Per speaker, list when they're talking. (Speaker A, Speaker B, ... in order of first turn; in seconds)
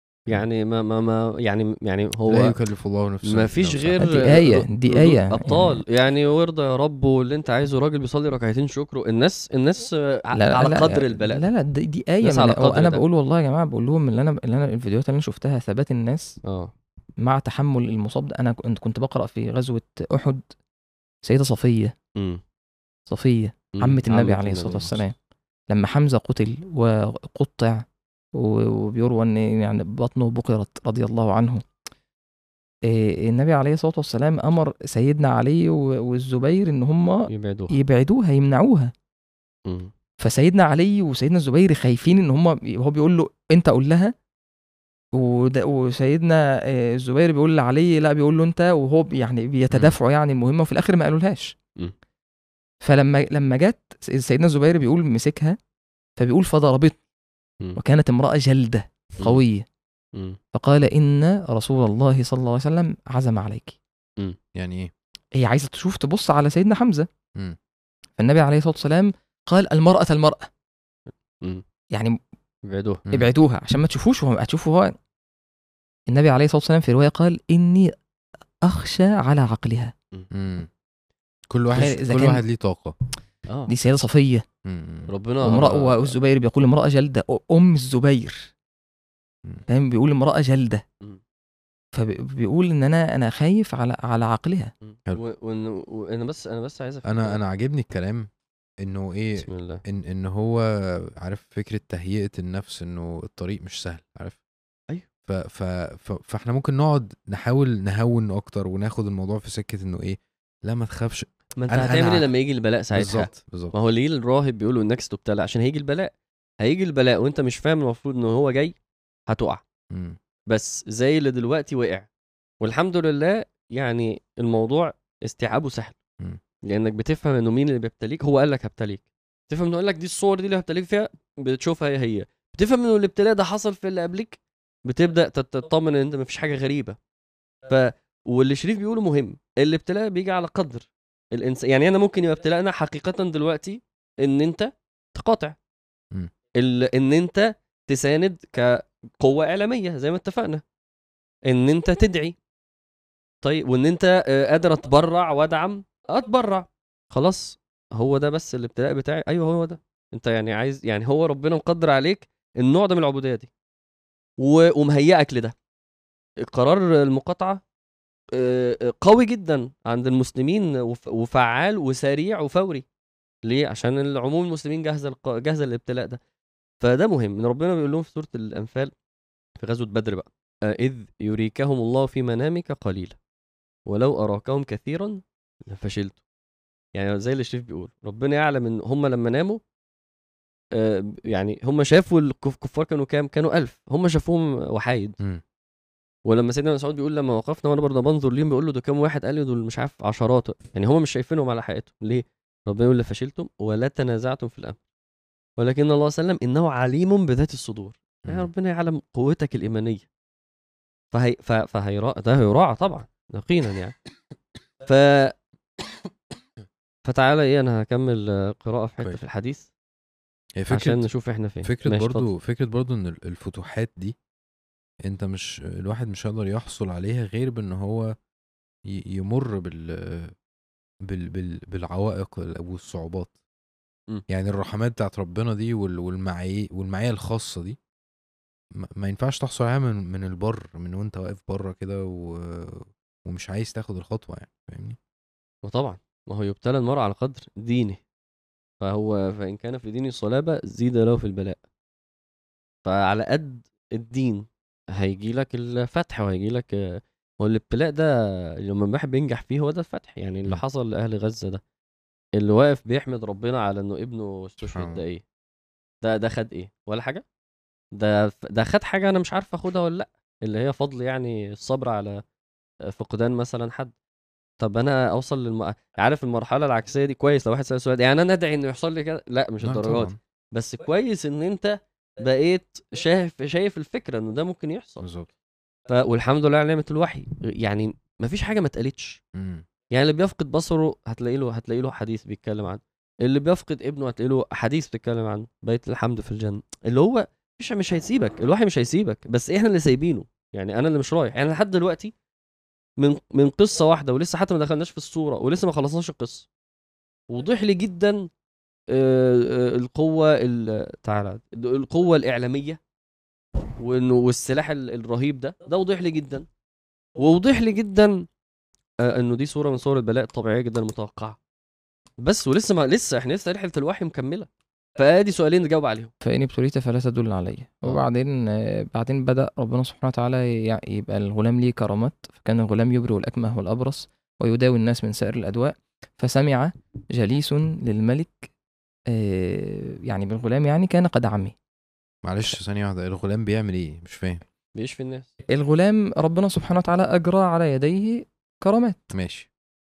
Speaker A: 0.3-2.6, 3.2-11.5, 12.2-13.0, 16.4-16.7, 22.2-22.4, 23.8-25.0, 37.3-37.7, 39.6-39.9, 72.7-73.0, 85.1-86.1, 94.8-97.4, 99.4-99.8, 111.6-118.7, 119.3-119.6, 120.5-122.1, 122.6-126.0, 126.7-137.0, 137.7-145.6, 146.6-150.6, 151.4-152.3, 153.4-163.5, 164.4-165.5, 166.4-167.6, 168.3-172.8, 173.4-176.2, 176.8-178.9, 179.6-183.2, 183.9-186.2, 186.9-189.6, 190.7-195.2, 196.2-204.8, 205.6-210.1, 211.1-213.9, 214.8-215.3, 217.0-219.7, 220.7-222.3, 245.6-248.0, 248.8-251.6, 252.8-261.6, 262.4-265.2, 266.0-267.2, 267.9-272.2, 272.8-273.9, 274.6-285.0, 285.9-289.2, 289.9-302.1, 303.0-306.4, 307.3-308.3, 308.9-312.8, 313.8-316.4, 317.2-318.2, 319.0-321.4, 322.2-326.1, 344.7-345.3
Speaker B: 2.3-4.3, 64.5-64.9, 80.3-80.7, 81.5-82.9, 84.6-85.1, 97.0-98.3, 98.8-104.4, 105.3-112.3, 112.9-113.8, 119.9-120.2, 208.2-208.5, 220.6-221.0, 221.6-224.2, 225.0-228.1, 228.9-230.3, 231.0-233.3, 234.3-237.8, 238.8-245.0, 264.6-265.0, 279.6-280.1, 285.0-285.3, 289.3-289.6, 342.2-344.4, 349.1-349.5
Speaker C: 4.0-5.8, 10.3-16.4, 17.2-20.5, 21.2-21.9, 23.1-25.1, 25.7-31.6, 32.9-38.9, 40.2-44.1, 45.1-51.5, 52.8-55.6, 56.2-57.0, 57.8-59.6, 60.5-63.8, 65.4-67.1, 68.2-70.5, 73.1-75.0, 76.1-77.9, 78.6-79.9, 81.7-82.4, 83.7-84.4, 85.4-88.5, 89.7-90.8, 91.9-94.7, 326.2-338.5, 339.1-341.5, 345.5-349.1